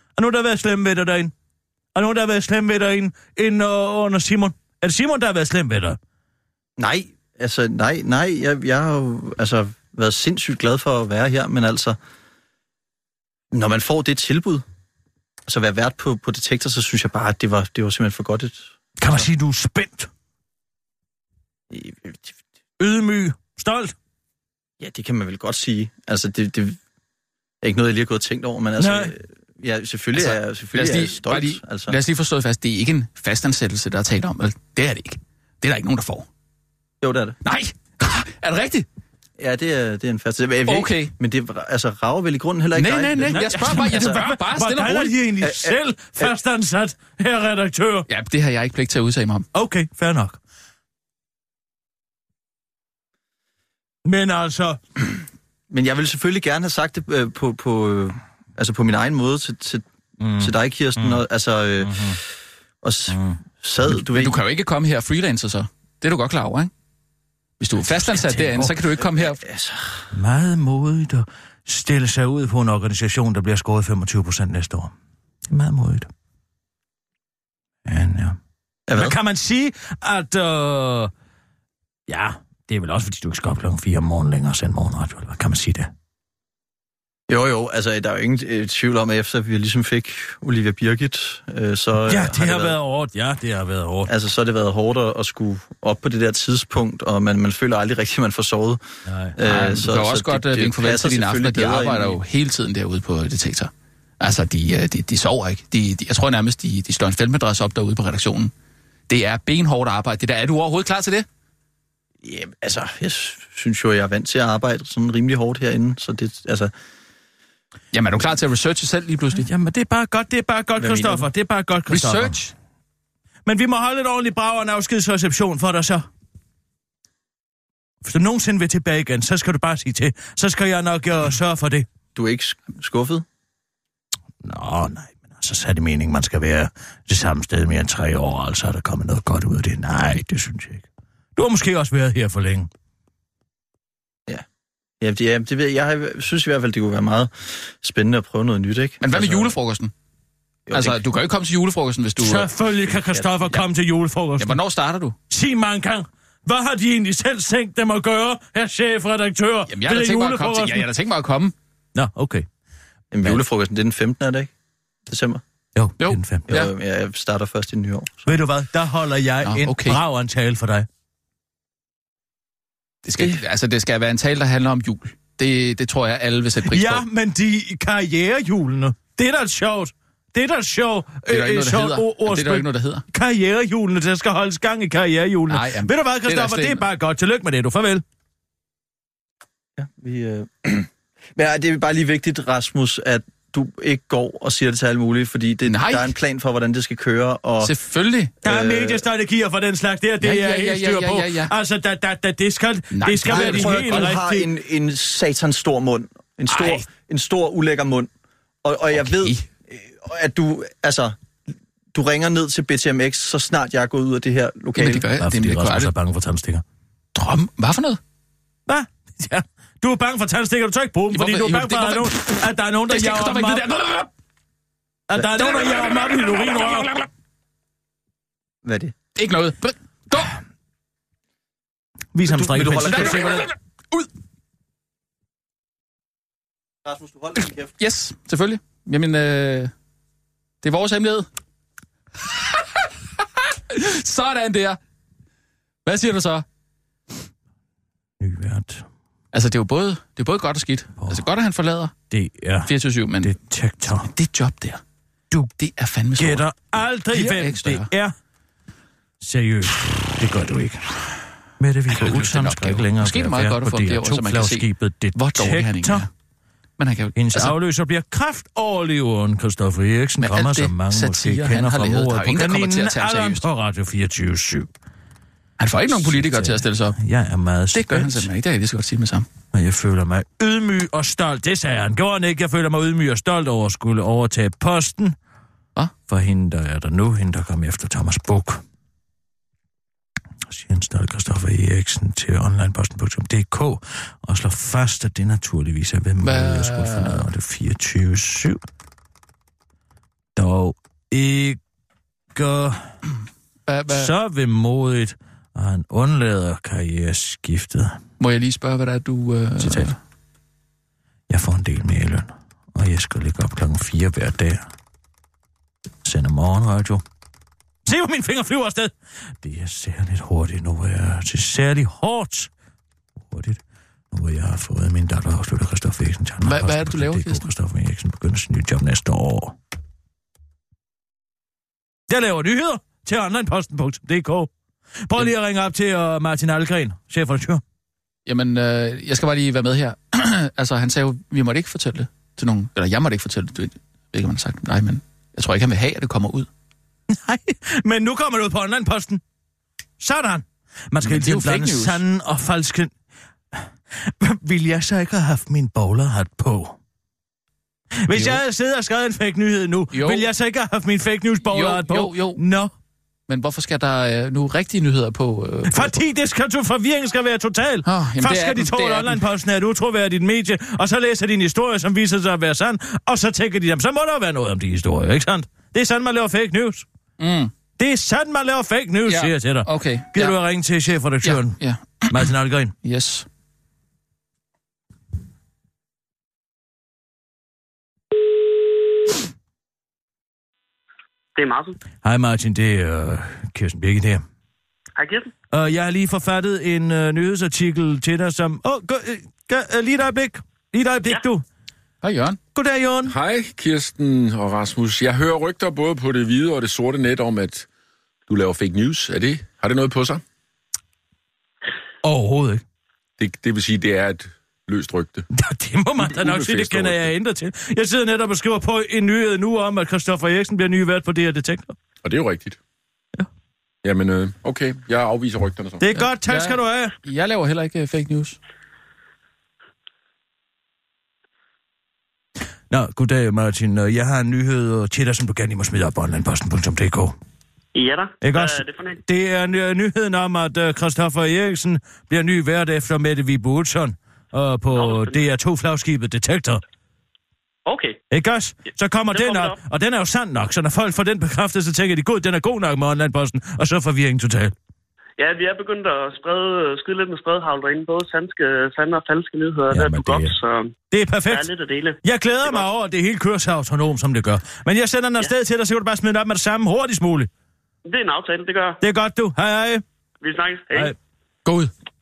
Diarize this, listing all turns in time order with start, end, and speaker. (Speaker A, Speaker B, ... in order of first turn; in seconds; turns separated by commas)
Speaker A: 0.2-1.3, Speaker A: 1.9-6.0, Speaker B: 6.8-12.0, Speaker B: 13.5-14.7, Speaker B: 15.5-19.2, Speaker A: 19.0-20.1, Speaker B: 21.7-22.2, Speaker A: 22.8-24.0, Speaker B: 24.8-26.8, Speaker B: 27.6-32.0, Speaker A: 28.8-29.1, Speaker C: 30.1-36.3, Speaker B: 37.0-37.4, Speaker C: 37.5-38.9, Speaker B: 39.4-44.2, Speaker C: 40.7-41.1, Speaker C: 42.8-45.1, Speaker A: 43.2-48.1, Speaker B: 45.4-46.3, Speaker C: 48.1-49.5, Speaker A: 49.5-50.4, Speaker A: 54.0-54.8, Speaker B: 55.7-59.8, Speaker A: 60.2-61.2, Speaker B: 60.4-62.2, Speaker A: 61.8-62.2, Speaker B: 62.8-64.4, Speaker A: 63.1-63.9, Speaker C: 64.1-66.7, Speaker C: 67.6-69.4, Speaker A: 68.0-68.8, Speaker B: 69.2-70.1, Speaker A: 70.1-74.9, Speaker A: 75.5-76.1, Speaker A: 77.8-78.4, Speaker B: 78.9-79.2, Speaker A: 78.9-81.1, Speaker A: 82.1-85.9, Speaker B: 87.3-92.8, Speaker A: 92.1-94.1, Speaker B: 94.1-98.8, Speaker A: 99.1-99.3, Speaker B: 99.4-102.2, Speaker C: 99.4-108.5, Speaker C: 109.1-111.3, Speaker B: 112.2-116.7, Speaker C: 117.9-119.5, Speaker A: 119.3-122.4, Speaker C: 120.8-121.3, Speaker C: 121.9-122.5, Speaker A: 123.5-126.1, Speaker A: 128.0-131.9, Speaker B: 132.2-133.2, Speaker A: 134.4-142.7, Speaker B: 145.0-149.5, Speaker C: 149.0-149.9, Speaker B: 150.7-151.0, Speaker C: 150.7-152.5, Speaker A: 152.2-154.6, Speaker C: 154.4-155.2, Speaker A: 155.3-160.9, Speaker C: 159.7-161.5, Speaker A: 161.9-162.5, Speaker B: 163.1-164.5, Speaker B: 165.1-165.4, Speaker A: 165.8-166.5, Speaker C: 166.0-166.7, Speaker B: 166.5-168.4, Speaker A: 168.3-170.9, Speaker C: 169.4-170.0, Speaker C: 173.1-177.1, Speaker A: 176.7-188.0, Speaker C: 181.3-183.1, Speaker C: 185.5-186.8, Speaker B: 189.8-197.7, Speaker C: 195.7-196.1, Speaker C: 197.6-198.3, Speaker B: 198.4-199.0, Speaker A: 198.4-204.5, Speaker C: 200.2-201.5, Speaker C: 202.9-204.1, Speaker B: 203.2-208.1, Speaker C: 206.5-206.9, Speaker B: 208.6-211.2, Speaker C: 208.9-209.5, Speaker B: 211.9-215.1, Speaker C: 214.8-215.9, Speaker A: 215.2-216.6, Speaker C: 217.2-218.0, Speaker A: 218.7-223.7, Speaker C: 221.1-224.1, Speaker A: 225.1-226.9, Speaker C: 225.4-227.1, Speaker B: 228.6-228.9, Speaker C: 229.2-230.4, Speaker A: 232.1-233.5, Speaker C: 232.3-234.1, Speaker B: 232.9-233.2, Speaker B: 236.8-237.7, Speaker C: 237.8-239.7, Speaker C: 240.6-241.3, Speaker C: 243.5-244.8, Speaker C: 245.8-246.4, Speaker A: 248.2-248.9, Speaker C: 249.3-251.9, Speaker A: 251.0-251.2, Speaker A: 252.1-254.1, Speaker C: 252.7-253.4, Speaker C: 253.9-254.8, Speaker C: 255.6-256.5, Speaker A: 256.2-258.1, Speaker C: 257.1-257.9, Speaker A: 259.2-260.9, Speaker A: 261.6-266.1, Speaker C: 261.9-266.1, Speaker C: 266.8-267.6, Speaker A: 267.1-274.7, Speaker C: 270.2-273.4, Speaker C: 275.6-277.0, Speaker A: 275.9-278.3, Speaker C: 277.7-279.3, Speaker A: 279.5-285.2, Speaker A: 286.1-288.6, Speaker A: 290.4-298.6, Speaker C: 296.2-297.2, Speaker A: 300.4-301.6, Speaker A: 302.4-302.9, Speaker C: 303.7-304.1, Speaker A: 303.9-308.0, Speaker C: 308.2-310.0, Speaker A: 309.6-309.9, Speaker A: 311.3-314.7, Speaker A: 316.0-317.0, Speaker A: 317.9-322.5, Speaker A: 323.2-329.6, Speaker C: 326.4-327.5, Speaker A: 332.1-334.5, Speaker A: 335.1-337.6, Speaker C: 338.3-346.5, Speaker A: 347.1-349.2, Speaker A: 350.0-352.9, Speaker C: 351.0-352.0, Speaker A: 353.5-356.8, Speaker A: 358.1-362.7, Speaker C: 358.1-358.4, Speaker C: 359.9-360.3, Speaker C: 361.4-362.4, Speaker C: 363.3-366.0, Speaker A: 365.7-376.9, Speaker C: 367.9-369.2, Speaker C: 377.2-377.5, Speaker A: 377.8-382.7, Speaker C: 379.1-380.4, Speaker C: 381.2-382.3, Speaker C: 382.8-383.3, Speaker D: 391.4-391.8, Speaker A: 392.0-394.2, Speaker D: 395.0-395.3, Speaker A: 395.5-401.4, Speaker C: 402.0-402.4, Speaker A: 402.6-403.1, Speaker E: 403.1-407.7, Speaker E: 408.3-410.2, Speaker A: 412.0-412.6, Speaker E: 413.2-415.2, Speaker A: 415.3-421.8, Speaker E: 416.0-417.1, Speaker E: 422.0-422.6, Speaker E: 423.8-425.9, Speaker A: 425.8-426.9, Speaker C: 426.0-428.4, Speaker A: 432.7-437.2, Speaker D: 437.8-439.0, Speaker A: 438.2-446.6, Speaker D: 444.7-445.2, Speaker D: 447.7-448.0, Speaker A: 448.1-454.6, Speaker D: 449.1-449.6, Speaker D: 455.2-460.7, Speaker A: 459.7-460.4, Speaker A: 460.9-461.5, Speaker D: 461.3-462.6, Speaker A: 462.0-467.3, Speaker D: 467.9-468.8, Speaker A: 468.8-469.8, Speaker D: 470.2-470.9, Speaker A: 470.7-471.0, Speaker C: 471.4-471.7